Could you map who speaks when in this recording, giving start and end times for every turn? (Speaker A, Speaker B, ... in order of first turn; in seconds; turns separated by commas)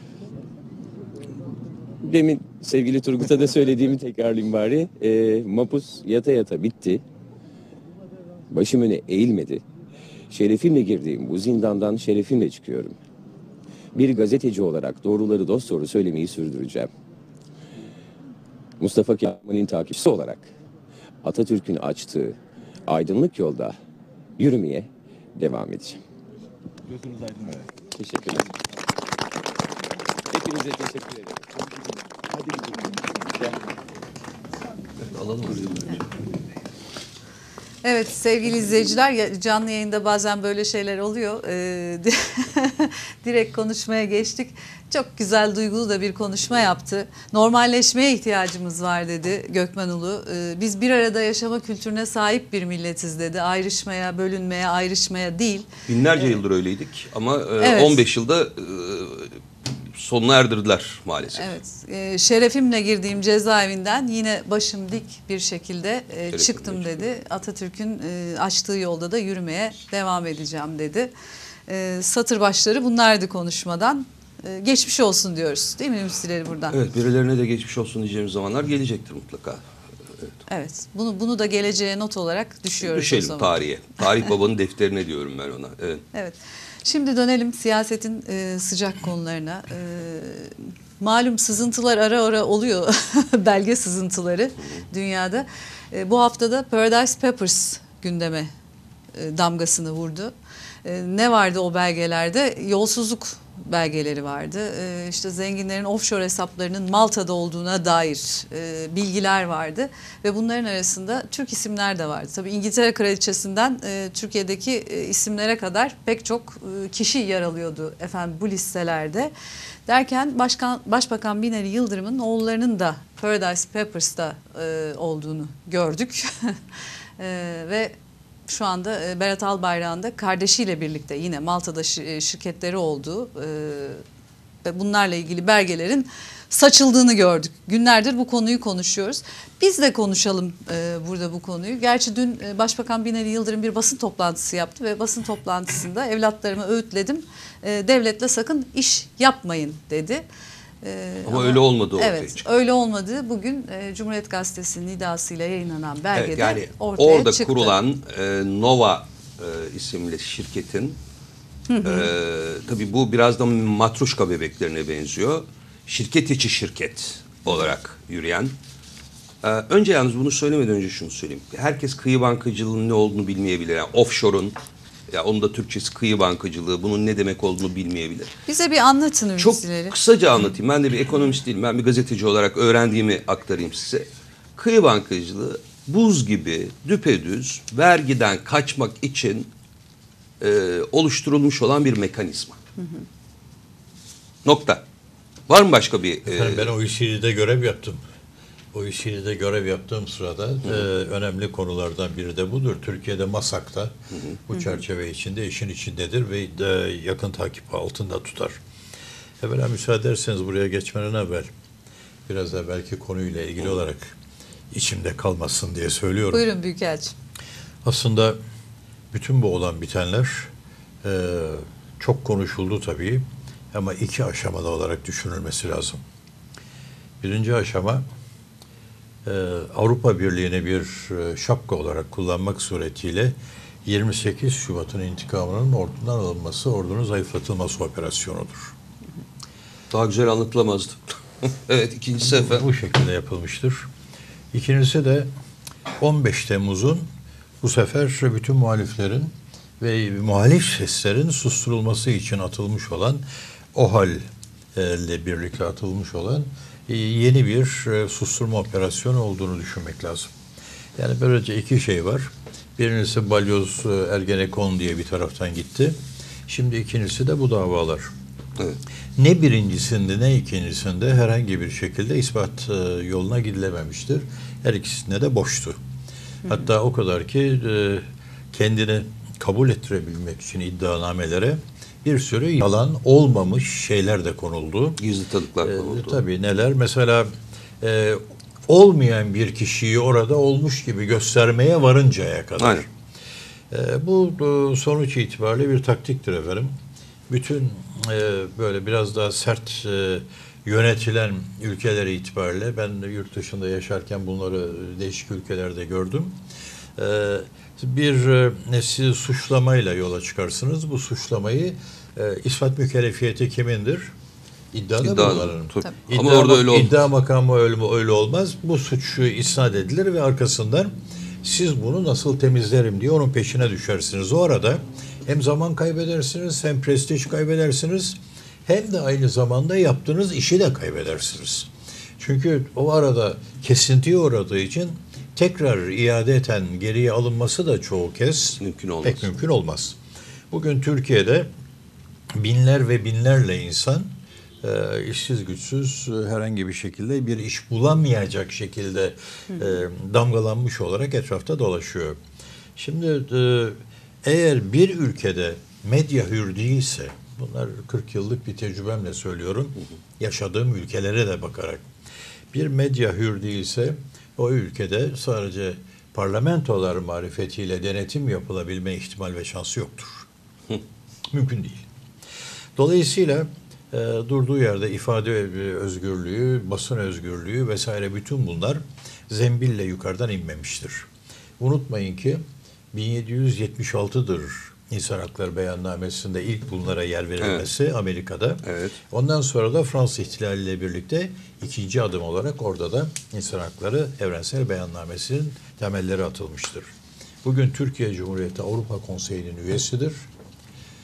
Speaker A: 2.0-7.0, Speaker A: 8.5-9.6, Speaker A: 10.3-13.0, Speaker A: 13.9-16.9, Speaker A: 18.8-20.5, Speaker A: 21.2-23.7, Speaker A: 24.4-26.0, Speaker A: 26.9-28.5, Speaker A: 30.3-31.5, Speaker A: 32.3-33.6, Speaker B: 35.0-36.1, Speaker C: 37.8-56.4, Speaker B: 55.9-59.4, Speaker C: 57.6-58.0, Speaker B: 60.0-61.5, Speaker C: 61.3-71.1, Speaker B: 66.3-67.1, Speaker C: 71.7-76.8, Speaker B: 76.7-79.6, Speaker C: 80.5-83.5, Speaker B: 82.8-86.0, Speaker C: 86.1-98.5, Speaker C: 99.1-100.3, Speaker C: 100.8-119.3, Speaker C: 119.8-126.6, Speaker C: 127.2-127.9, Speaker C: 128.5-134.0, Speaker C: 134.6-150.2, Speaker C: 150.8-157.8, Speaker B: 151.2-152.4, Speaker B: 156.1-161.0, Speaker C: 161.7-162.1, Speaker B: 161.8-168.5, Speaker C: 167.4-167.7, Speaker B: 169.4-174.5, Speaker B: 175.1-178.3, Speaker C: 178.5-179.9, Speaker B: 179.4-189.5, Speaker B: 190.4-192.6, Speaker C: 192.8-193.0, Speaker B: 194.4-194.8, Speaker B: 195.5-196.7, Speaker D: 196.2-198.0, Speaker D: 198.7-203.9, Speaker B: 204.1-204.4, Speaker D: 204.5-208.6, Speaker D: 209.4-211.5, Speaker D: 212.3-214.2, Speaker D: 214.7-216.4, Speaker C: 216.3-217.1, Speaker D: 217.8-218.4, Speaker D: 219.1-220.5, Speaker D: 221.0-226.0, Speaker D: 227.2-228.0, Speaker D: 229.2-238.7, Speaker B: 239.9-242.7, Speaker D: 242.2-243.8, Speaker D: 244.5-245.3, Speaker D: 246.0-247.1, Speaker D: 247.6-253.2, Speaker D: 253.7-254.2, Speaker D: 254.7-260.3, Speaker D: 261.0-265.9, Speaker D: 266.5-268.1, Speaker D: 269.2-275.8, Speaker D: 276.4-285.0, Speaker B: 285.0-286.2, Speaker D: 285.6-292.9, Speaker B: 292.6-292.8, Speaker D: 293.7-296.7, Speaker D: 297.3-306.4, Speaker D: 307.0-314.1, Speaker D: 314.7-320.9, Speaker B: 315.0-317.0, Speaker D: 321.4-340.0, Speaker B: 338.6-339.3, Speaker D: 340.5-341.5, Speaker D: 342.3-352.2, Speaker D: 352.8-361.9, Speaker D: 362.5-370.2, Speaker D: 371.3-371.9, Speaker D: 372.8-381.1, Speaker D: 381.6-382.4, Speaker D: 382.9-396.9, Speaker B: 387.4-387.6, Speaker B: 388.6-389.0, Speaker D: 397.4-400.2